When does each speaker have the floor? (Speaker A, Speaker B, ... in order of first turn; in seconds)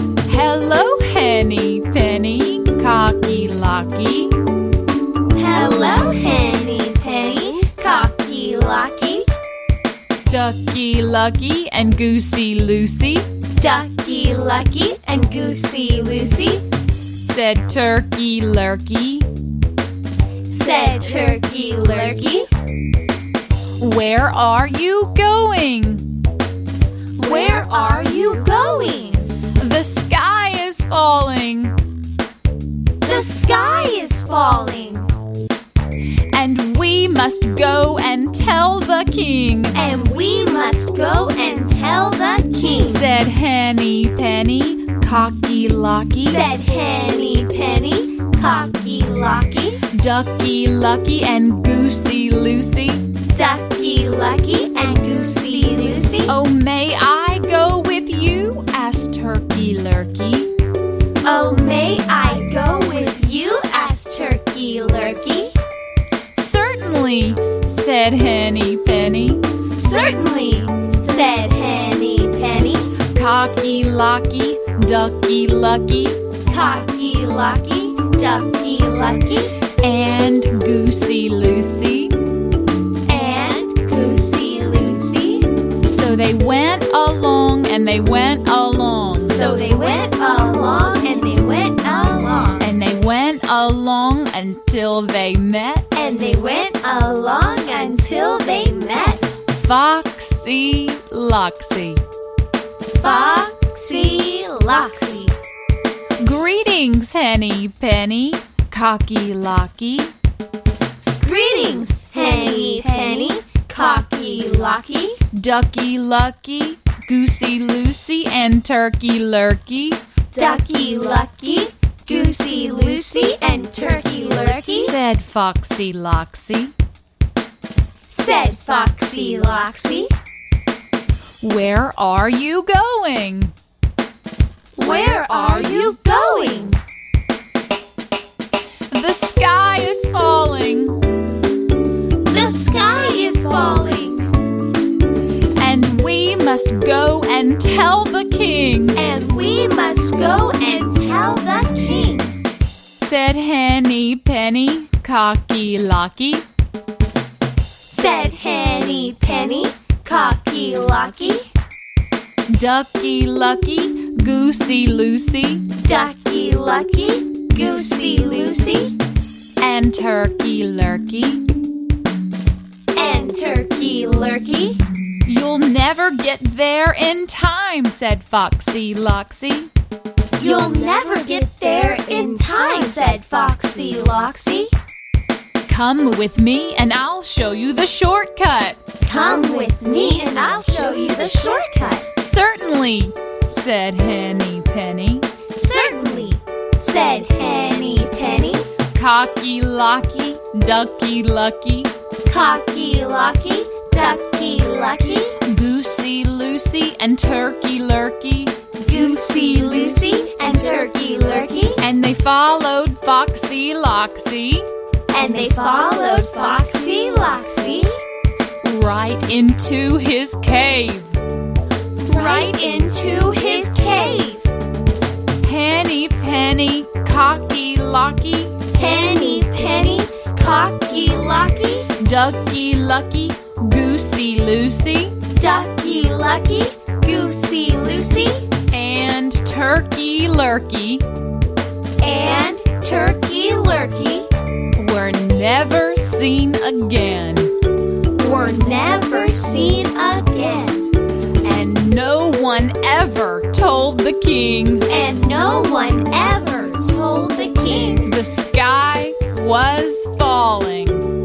Speaker A: 0.2-4.4, 10.3-13.3, 17.2-19.3, 23.8-26.1, 29.6-31.8, 36.3-39.8, 42.9-46.4, 49.9-53.1, 56.3-60.5, 66.3-69.5, 73.0-76.2, 79.8-82.2, 85.8-89.4, 92.6-95.9, 99.5-102.0, 106.2-110.1, 115.3-120.0, 124.8-126.7, 131.4-133.5, 138.9-141.0, 145.6-149.0, 153.0-156.4, 162.5-165.8, 169.6-171.5, 175.3-179.7, 185.7-188.8, 192.2-195.3, 198.9-201.9, 205.4-208.6, 211.8-214.7, 218.6-221.2, 225.4-228.6, 232.0-235.2, 238.7-241.1, 244.7-247.6, 251.4-254.9, 258.0-261.1
Speaker B: 5.3-9.3, 13.6-16.6, 20.5-22.5, 27.1-29.3, 33.0-35.1, 39.7-43.1, 46.2-49.8, 53.3-56.4, 61.2-65.6, 69.7-73.0, 76.5-79.6, 83.1-85.5, 89.3-92.6, 95.9-99.3, 102.9-105.3, 111.2-115.2, 120.3-125.0, 128.1-130.1, 134.8-136.8, 142.2-144.3, 148.9-152.4, 157.9-161.5, 165.8-169.0, 172.9-174.8, 180.4-184.7, 189.0-192.1, 195.5-198.7, 202.2-205.4, 208.8-211.8, 215.1-218.0, 222.0-224.5, 228.7-231.9, 235.3-238.6, 242.0-244.3, 248.1-250.9, 254.9-258.1